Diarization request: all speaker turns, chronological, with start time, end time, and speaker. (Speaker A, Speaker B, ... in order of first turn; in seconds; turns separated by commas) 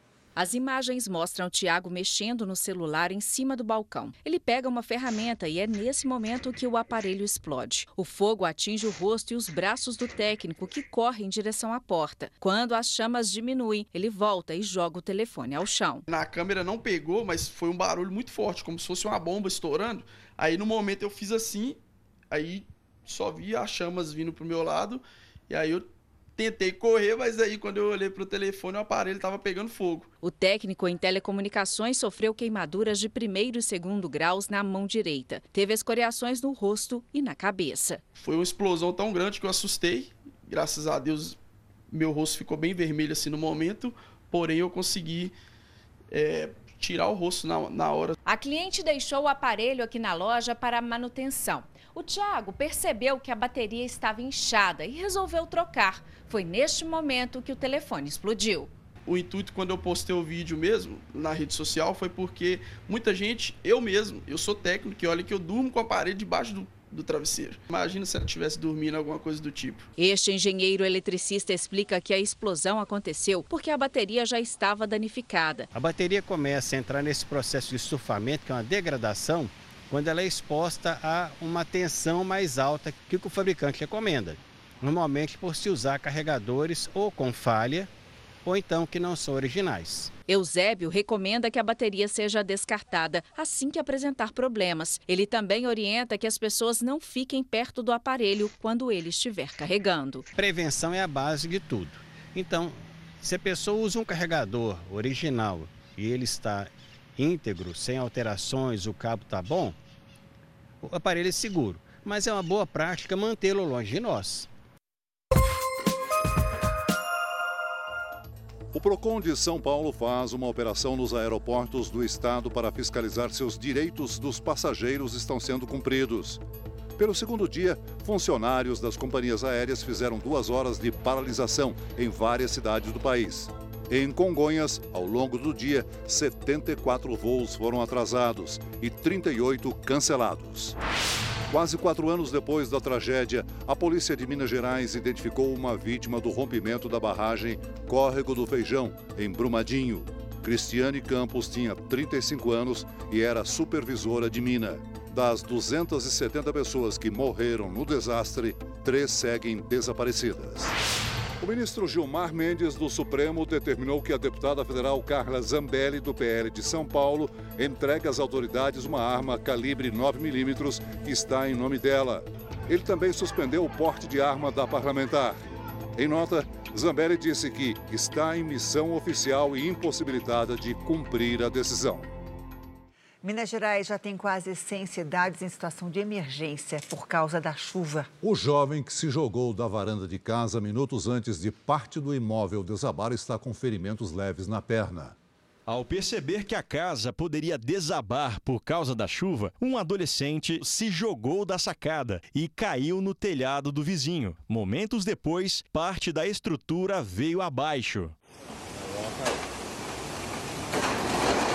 Speaker A: 0.3-16.0, Speaker B: 16.1-21.8, Speaker B: 22.3-30.1, Speaker A: 30.2-38.0, Speaker B: 38.2-41.4, Speaker B: 41.9-45.3, Speaker B: 46.1-48.1, Speaker A: 48.2-58.7, Speaker B: 59.0-69.9, Speaker A: 70.0-75.7, Speaker C: 75.8-87.9, Speaker C: 88.5-90.1, Speaker A: 90.3-100.2, Speaker C: 100.4-102.0, Speaker C: 102.5-109.7, Speaker C: 110.8-114.5, Speaker D: 118.7-126.4, Speaker D: 127.0-140.8, Speaker D: 141.5-160.7, Speaker D: 161.4-175.4, Speaker D: 175.9-182.1, Speaker E: 183.2-188.1, Speaker D: 188.2-195.1, Speaker F: 195.7-208.1